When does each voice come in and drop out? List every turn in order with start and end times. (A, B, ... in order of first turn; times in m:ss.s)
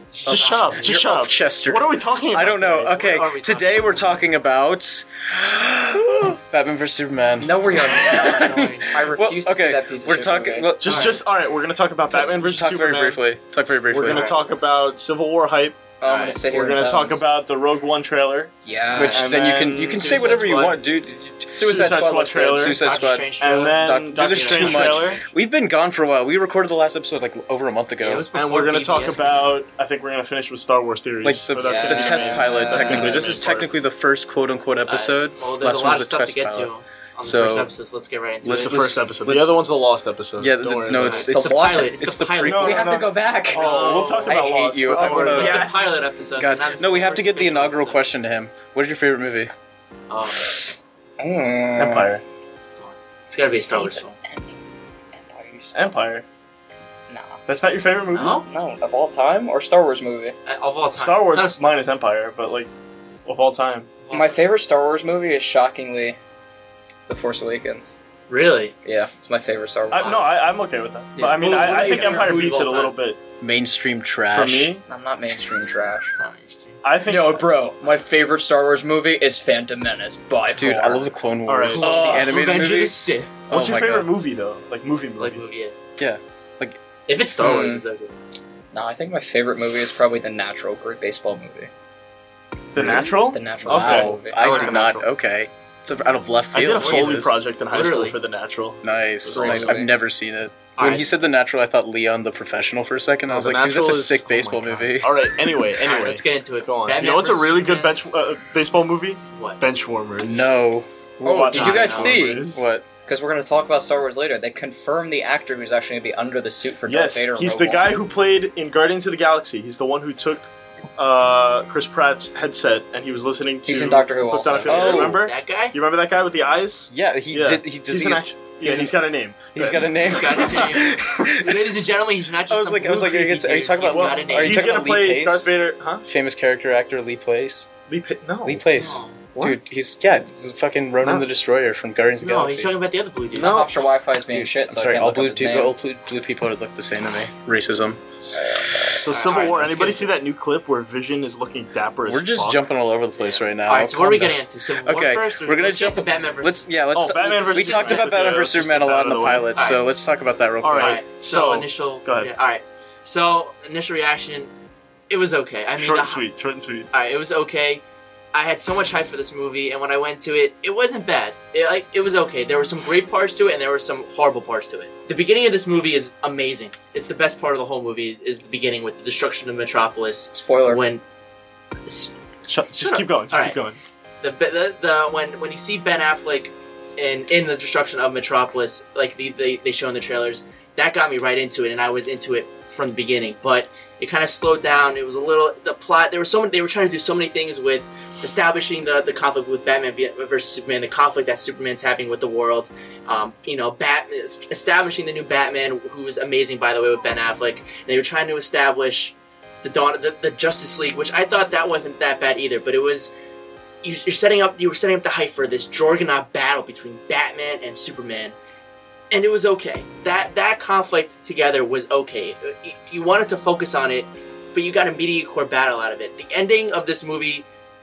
0:00.1-0:01.0 A
0:00.2-0:11.1 B
0:00.3-0:03.1 C
0:02.9-0:04.2 A
0:07.4-0:10.7 D
0:08.1-0:08.9 A
0:10.8-0:13.2 C
0:10.8-0:11.5 A
0:12.1-0:14.4 B
0:13.9-0:15.8 C
0:16.0-0:17.2 D
0:16.0-0:16.4 A
0:16.4-0:18.5 C
0:18.6-0:19.2 D
0:18.9-0:21.9 B
0:19.0-0:19.3 A
0:19.1-0:20.2 C
0:19.8-0:20.8 A
0:21.5-0:22.7 D
0:21.5-0:22.8 C
0:22.5-0:28.2 B
0:22.8-0:25.2 A
0:23.4-0:25.2 C
0:28.0-0:29.5 A
0:28.3-0:33.7 C
0:31.2-0:36.7 B
0:31.6-0:33.3 D
0:34.9-0:38.9 A
0:37.2-0:37.7 B
0:38.4-0:39.6 B
0:38.4-0:41.3 C
0:40.4-0:42.6 B
0:41.0-0:42.9 A
0:41.3-0:44.1 D
0:42.4-0:45.6 C
0:43.5-0:44.4 A
0:44.2-0:45.7 B
0:44.9-0:46.0 D
0:45.2-0:48.0 A
0:46.4-0:49.5 B
0:50.1-0:50.5 A
0:51.2-0:52.1 D
0:51.8-0:52.2 C
0:52.8-0:54.1 A
0:53.8-0:54.5 D
0:55.1-0:55.8 D
0:55.7-0:56.2 C
0:57.1-0:57.4 D
0:57.4-0:58.4 C
0:58.1-0:58.5 A
0:58.4-1:00.3 D
1:00.5-1:01.7 A
1:01.0-1:02.7 C
1:03.2-1:03.9 C
1:04.0-1:04.5 A
1:04.1-1:06.2 D
1:07.1-1:08.0 D
1:08.3-1:08.7 A
1:08.8-1:10.3 D
1:09.9-1:13.2 C
1:11.2-1:12.1 D
1:11.2-1:13.0 A
1:13.4-1:14.7 B
1:14.3-1:14.8 C
1:14.9-1:16.1 D
1:16.1-1:16.8 A
1:16.8-1:17.4 C
1:17.0-1:21.1 D
1:20.6-1:23.0 B
1:21.5-1:21.8 C
1:21.8-1:23.4 A
1:21.8-1:22.3 D
1:23.5-1:24.1 B
1:23.5-1:25.4 C
1:25.2-1:25.8 A
1:26.0-1:26.8 B
1:27.1-1:28.1 A
1:27.4-1:27.8 D
1:28.7-1:31.7 D
1:32.7-1:35.1 C
1:32.8-1:34.7 D
1:33.6-1:37.3 B
1:36.5-1:39.9 C
1:36.6-1:38.2 A
1:38.8-1:45.1 B
1:39.3-1:39.8 D
1:40.8-1:41.1 A
1:43.3-1:50.5 C
1:45.8-1:48.0 A
1:49.3-1:49.6 A
1:50.2-1:52.8 B
1:51.2-1:52.6 C
1:51.4-1:52.4 D
1:51.5-1:52.2 A
1:53.0-1:58.0 D
1:56.8-2:10.7 C
2:03.6-2:05.0 D
2:04.6-2:05.7 A
2:04.7-2:05.2 B
2:06.9-2:09.0 B
2:09.5-2:11.7 B
2:10.0-2:14.6 A
2:12.5-2:15.5 B
2:13.8-2:16.0 C
2:16.0-2:17.7 B
2:17.9-2:18.7 C
2:18.4-2:22.7 B
2:18.7-2:19.2 A
2:19.3-2:19.6 C
2:22.2-2:23.7 A
2:23.3-2:23.8 C
2:23.4-2:25.7 D
2:24.3-2:29.8 B
2:28.3-2:28.7 D
2:28.9-2:32.7 C
2:29.1-2:30.0 A
2:32.0-2:41.0 B
2:33.2-2:36.7 A
2:36.9-2:39.5 C
2:37.5-2:38.2 A
2:39.5-2:39.8 A
2:40.6-2:42.3 C
2:40.8-2:44.5 A
2:45.1-2:46.2 A
2:45.8-2:46.9 C
2:46.9-3:01.0 A
3:00.3-3:00.8 D
3:02.5-3:03.8 C
3:02.8-3:03.6 A
3:04.2-3:33.1 A
3:33.8-3:38.3 A
3:39.1-3:47.4 A